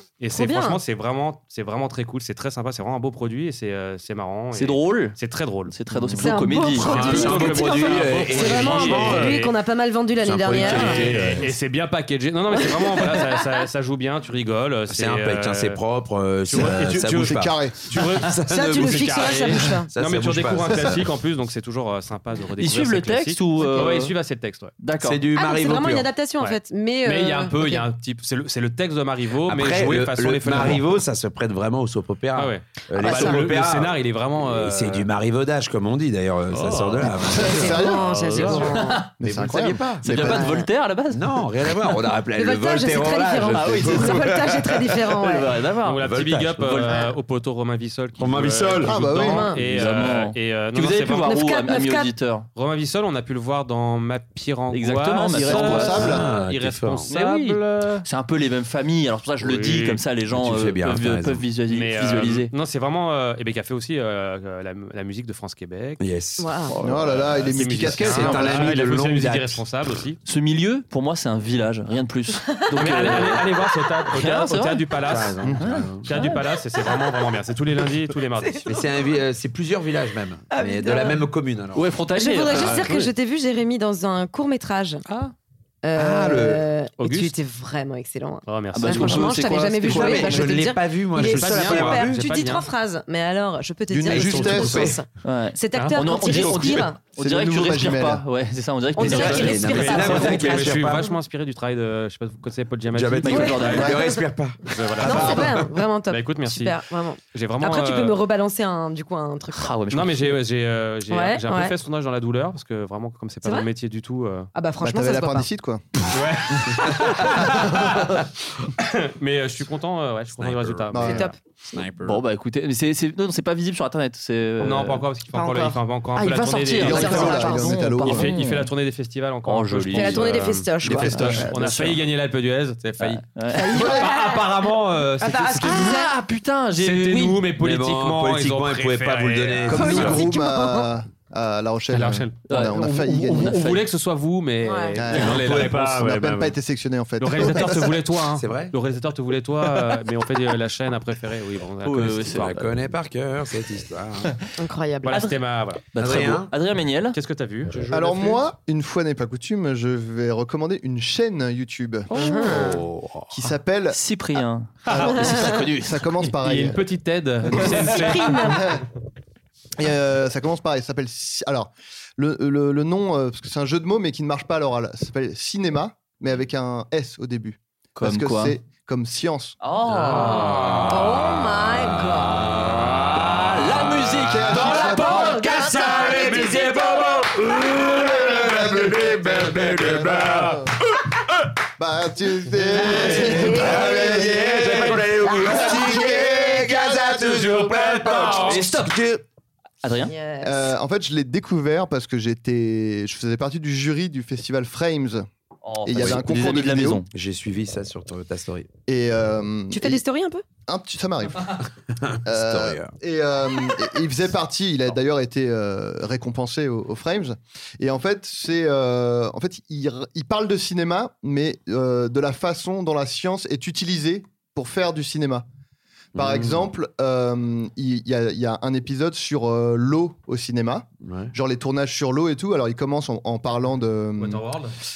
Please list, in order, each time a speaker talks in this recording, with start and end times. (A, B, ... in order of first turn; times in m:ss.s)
0:00.2-0:05.8 A
0:00.3-0:00.8 B
0:04.6-0:05.2 C
0:05.7-0:07.2 C
0:06.0-0:09.5 D
0:06.2-0:11.2 B
0:06.8-0:09.5 A
0:10.2-0:11.5 D
0:10.5-0:15.8 A
0:14.9-0:19.4 D
0:16.5-0:24.7 A
0:16.6-0:17.9 E
0:18.5-0:19.9 B
0:19.9-0:21.1 D
0:20.7-0:21.0 E
0:22.6-0:24.2 C
0:24.8-0:25.2 C
0:25.0-0:26.1 D
0:25.4-0:27.8 B
0:26.4-0:31.0 A
0:29.5-0:40.1 D
0:32.4-0:35.1 A
0:33.0-0:33.3 B
0:36.5-0:38.8 A
0:37.3-0:40.6 E
0:37.4-0:38.8 B
0:38.8-0:39.1 C
0:40.0-0:41.5 C
0:40.1-0:40.6 B
0:41.1-0:45.0 D
0:42.4-0:45.5 B
0:43.5-0:44.3 C
0:45.2-0:46.0 C
0:45.8-0:51.4 A
0:46.0-0:46.9 D
0:46.6-0:47.0 C
0:48.2-0:49.1 D
0:48.8-0:49.6 E
0:49.2-0:49.6 B
0:49.6-0:52.5 C
0:51.2-0:52.1 B
0:52.6-0:58.0 A
0:54.7-0:56.2 C
0:55.4-0:57.6 D
0:55.5-0:56.3 E
0:58.0-1:02.5 C
0:59.4-1:00.0 A
1:00.3-1:01.4 D
1:01.7-1:06.0 A
1:06.0-1:09.6 D
1:06.4-1:06.7 B
1:06.8-1:10.2 A
1:06.8-1:08.8 E
1:10.3-1:13.5 C
1:12.7-1:18.7 A
1:14.1-1:14.8 C
1:15.0-1:16.2 D
1:15.6-1:15.9 C
1:18.5-1:18.8 B
1:18.6-1:21.9 D
1:20.5-1:21.2 B
1:21.8-1:22.9 C
1:22.2-1:25.0 B
1:22.5-1:23.1 A
1:25.1-1:25.3 A
1:25.8-1:37.0 B
1:25.9-1:26.7 D
1:27.0-1:27.3 A
1:28.5-1:29.4 A
1:28.7-1:30.5 C
1:29.8-1:32.3 D
1:31.2-1:32.7 A
1:33.9-1:35.0 E
1:34.1-1:35.0 D
1:35.2-1:40.6 C
1:35.7-1:36.0 A
1:36.2-1:36.9 D
1:37.2-1:38.2 E
1:39.0-1:40.6 B
1:39.0-1:41.1 D
1:39.1-1:43.9 A
1:42.9-1:45.7 D
1:43.2-1:44.0 C
1:43.3-1:44.2 B
1:44.7-1:45.5 A
1:45.0-1:49.7 B
1:46.1-1:46.8 A
1:47.3-1:48.2 A
1:49.6-1:50.4 C
1:49.9-1:54.5 A
1:51.1-1:51.8 B
1:54.6-1:55.5 B
1:54.8-1:56.1 E
1:56.1-1:58.0 A
1:58.8-2:01.3 A
2:00.4-2:01.2 D
2:00.9-2:01.3 E
2:01.0-2:01.4 B
2:01.7-2:02.2 D
2:02.0-2:05.0 C
2:04.6-2:16.0 A
2:05.3-2:08.2 B
2:06.4-2:08.7 C
2:06.8-2:08.3 E
2:09.5-2:12.0 C
2:09.9-2:11.6 B
2:13.0-2:13.7 C
2:13.5-2:14.5 B
2:15.2-2:16.1 B
2:15.6-2:17.4 C
2:16.8-2:20.2 A
2:17.6-2:20.3 D
2:19.7-2:23.6 E
2:19.7-2:20.9 B
2:21.9-2:26.6 A
2:22.5-2:23.9 C
2:24.6-2:25.0 B
2:25.0-2:27.9 E
2:25.1-2:26.0 D
2:27.2-2:32.6 A
2:27.4-2:28.7 D
2:31.8-2:32.6 C
2:32.1-2:34.4 D
2:34.6-2:35.2 B
2:35.0-2:35.9 A
2:35.1-2:35.4 C
2:35.9-2:37.2 C
2:36.0-2:36.5 D
2:37.1-2:38.3 A
2:37.9-2:44.0 E
2:42.2-2:42.8 B
2:42.4-2:43.3 D
2:43.9-2:46.2 C
2:44.9-2:46.8 E
2:45.0-2:45.4 B
2:46.4-2:48.6 A
2:47.5-2:47.8 E
2:47.6-2:48.7 B
2:48.5-2:48.8 E
2:49.8-2:59.6 E
2:58.0-2:58.6 C
2:59.6-3:00.9 C
3:00.0-3:00.8 A
3:00.1-3:02.6 B
3:00.3-3:00.9 D
3:02.6-3:03.0 D
3:02.8-3:06.3 C
3:04.2-3:06.0 E
3:04.7-3:07.3 B
3:05.8-3:06.7 D
3:07.3-3:10.6 D
3:08.4-3:10.7 E
3:11.8-3:14.8 E
3:12.7-3:19.2 D
3:12.9-3:13.4 A
3:13.2-3:14.3 B
3:14.4-3:15.1 A
3:15.2-3:16.0 B
3:15.9-3:17.6 E
3:17.3-3:18.6 A
3:18.4-3:19.0 C
3:19.8-3:20.1 C
3:20.0-3:20.7 B
3:20.4-3:25.3 E
3:25.6-3:27.1 C
3:25.8-3:27.0 E
3:25.9-3:28.7 D
3:28.9-3:30.0 E
3:29.7-3:30.4 B
3:30.7-3:31.6 E
3:32.0-3:32.9 D
3:32.3-3:45.4 E
3:46.2-3:46.7 D
3:46.2-3:54.5 E
3:51.0-3:51.3 D
3:54.2-3:54.8 A